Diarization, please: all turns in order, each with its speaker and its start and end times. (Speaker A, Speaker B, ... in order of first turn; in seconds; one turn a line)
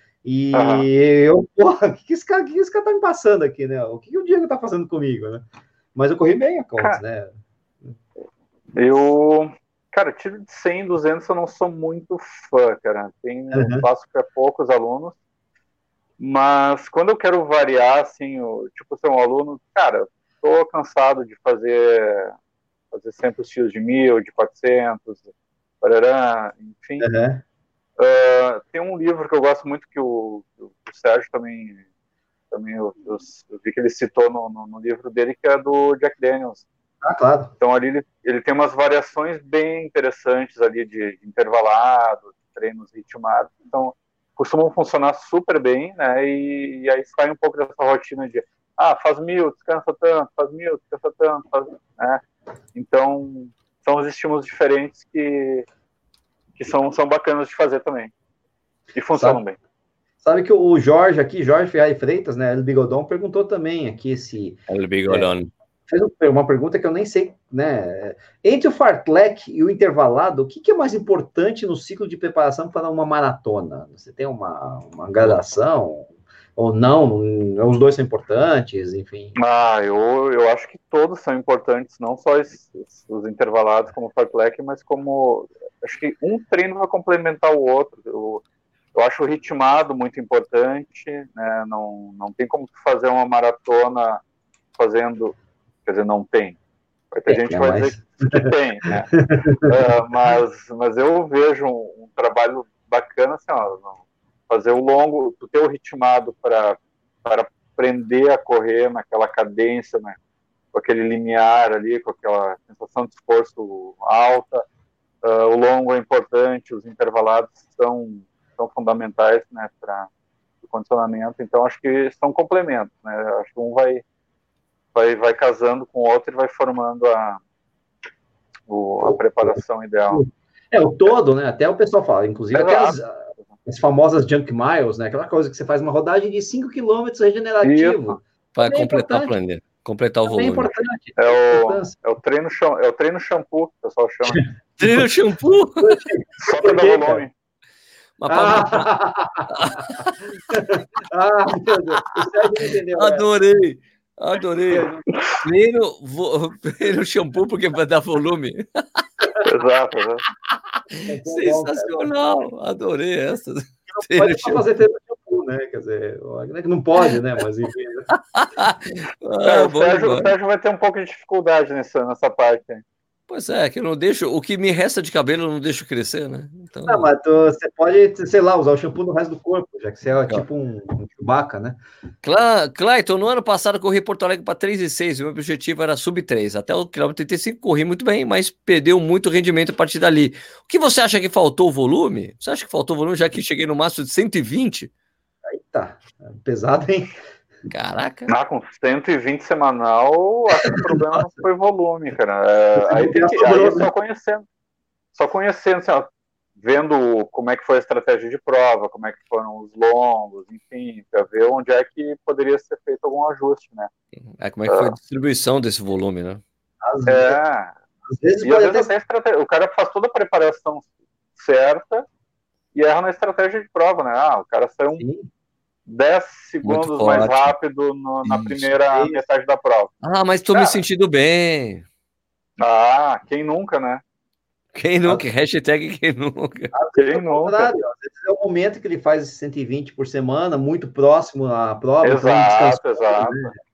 Speaker A: 0.2-7.3
Speaker B: 0.5-0.9
Speaker B: 8.8-15.2
Speaker A: 13.5-13.8
Speaker B: 16.2-22.3
Speaker B: 22.9-25.3
Speaker B: 25.8-27.1
Speaker A: 27.0-27.4
Speaker B: 28.0-31.8
Speaker B: 32.5-36.7
Speaker A: 37.0-37.5
Speaker B: 37.6-52.2
Speaker B: 52.7-55.6
Speaker B: 56.6-58.1
Speaker B: 58.9-59.5
Speaker A: 59.1-59.4
Speaker A: 60.2-65.3
Speaker C: 64.7-65.5
Speaker A: 65.9-79.3
Speaker B: 79.3-94.2
Speaker B: 94.8-96.6
Speaker B: 97.1-99.1
Speaker A: 97.3-98.5
Speaker A: 99.2-99.7
Speaker B: 99.6-104.0
Speaker B: 104.5-110.2
Speaker B: 110.7-114.7
Speaker B: 115.2-120.1
Speaker B: 120.6-124.0
Speaker B: 124.9-127.4
Speaker B: 128.7-130.2
Speaker A: 129.0-129.6
Speaker A: 130.1-139.3
Speaker B: 132.5-132.9
Speaker B: 137.6-138.2
Speaker C: 138.5-140.7
Speaker A: 140.2-141.9
Speaker B: 141.2-144.5
Speaker A: 144.3-145.1
Speaker C: 144.8-146.0
Speaker A: 145.8-147.2
Speaker B: 146.4-147.3
Speaker C: 148.2-148.9
Speaker A: 148.3-149.9
Speaker C: 149.5-150.2
Speaker A: 150.5-153.3
Speaker C: 152.2-154.9
Speaker A: 154.7-155.1
Speaker C: 155.4-159.3
Speaker B: 159.4-160.2
Speaker C: 160.9-164.6
Speaker A: 161.1-162.1
Speaker A: 163.9-168.1
Speaker C: 168.1-170.3
Speaker B: 169.4-172.8
Speaker C: 173.3-177.1
Speaker A: 176.9-181.8
Speaker C: 182.2-194.9
Speaker A: 195.5-197.1
Speaker C: 197.7-198.3
Speaker B: 198.3-204.4
Speaker A: 202.8-203.9
Speaker B: 205.1-213.9
Speaker C: 214.3-216.4
Speaker B: 214.7-214.9
Speaker A: 216.8-217.4
Speaker B: 217.1-217.7
Speaker A: 218.1-218.9
Speaker B: 218.4-222.1
Speaker B: 222.7-225.0
Speaker A: 225.0-225.3
Speaker B: 225.9-229.9
Speaker C: 226.6-227.5
Speaker C: 228.2-228.7
Speaker A: 228.9-229.2
Speaker C: 230.0-231.8
Speaker B: 230.5-230.8
Speaker B: 232.6-234.0
Speaker C: 234.7-236.7
Speaker A: 236.7-243.6
Speaker B: 236.9-237.7
Speaker B: 242.0-243.5